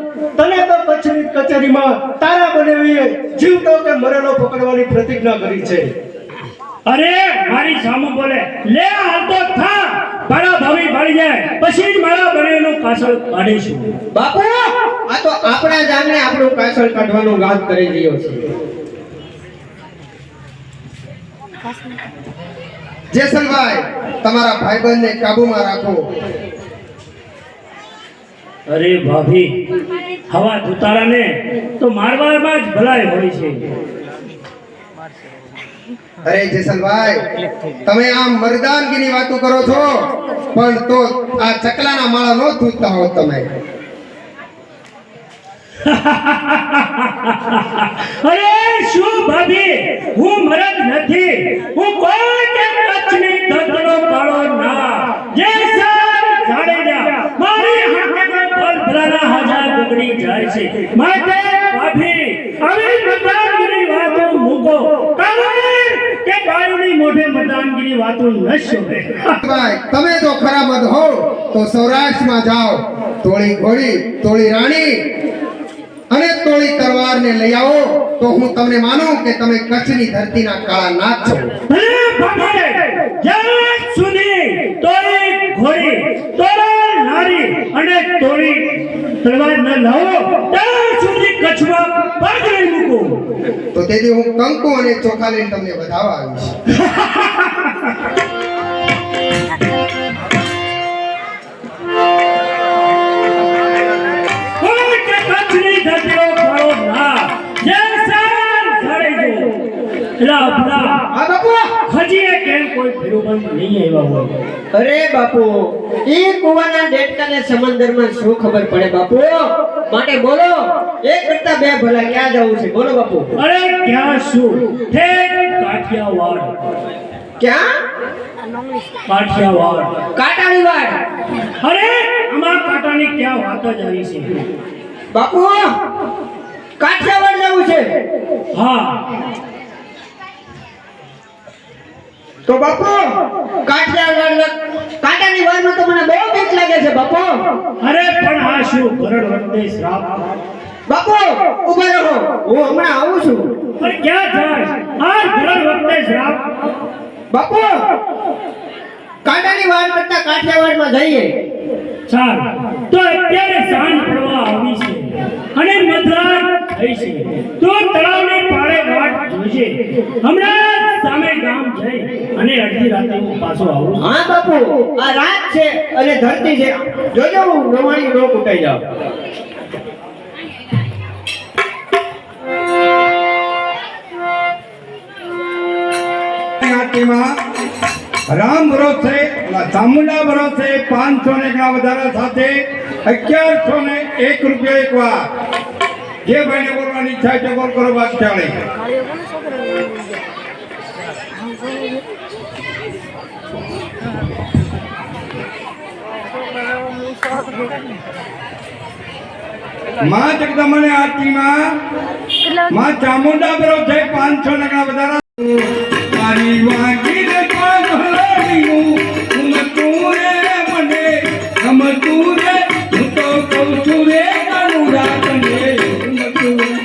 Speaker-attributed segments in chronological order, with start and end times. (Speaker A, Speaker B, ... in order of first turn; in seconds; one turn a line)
Speaker A: 0.4-5.9
Speaker B: 6.9-13.8
Speaker C: 14.1-18.4
Speaker D: 23.1-26.0
Speaker B: 28.7-29.5
Speaker B: 30.3-33.6
Speaker D: 36.2-37.2
Speaker D: 37.9-43.5
Speaker B: 45.8-69.4
Speaker D: 69.4-75.0
Speaker D: 76.1-81.5
Speaker B: 81.7-88.7
Speaker B: 89.2-93.2
Speaker D: 93.7-96.5
Speaker B: 96.8-97.7
Speaker B: 104.6-109.5
Speaker B: 110.2-110.9
Speaker C: 111.1-111.7
Speaker B: 111.9-114.3
Speaker C: 114.7-115.6
Speaker C: 116.1-123.3
Speaker B: 123.4-126.5
Speaker C: 127.4-127.7
Speaker B: 129.1-129.9
Speaker C: 130.2-130.9
Speaker B: 131.6-134.3
Speaker C: 135.1-135.6
Speaker C: 136.8-137.9
Speaker B: 138.5-138.9
Speaker C: 142.5-143.0
Speaker C: 143.7-147.3
Speaker B: 147.8-150.1
Speaker C: 150.9-153.5
Speaker B: 153.8-156.4
Speaker C: 157.3-157.8
Speaker C: 159.2-161.3
Speaker B: 162.1-174.0
Speaker C: 174.0-178.8
Speaker E: 186.6-187.2
Speaker E: 188.3-192.5
Speaker E: 193.0-195.2
Speaker E: 196.2-198.5
Speaker E: 210.0-211.5
Speaker E: 212.7-215.2
Speaker E: 216.1-221.1
Speaker E: 221.6-226.1
Speaker D: 226.1-226.4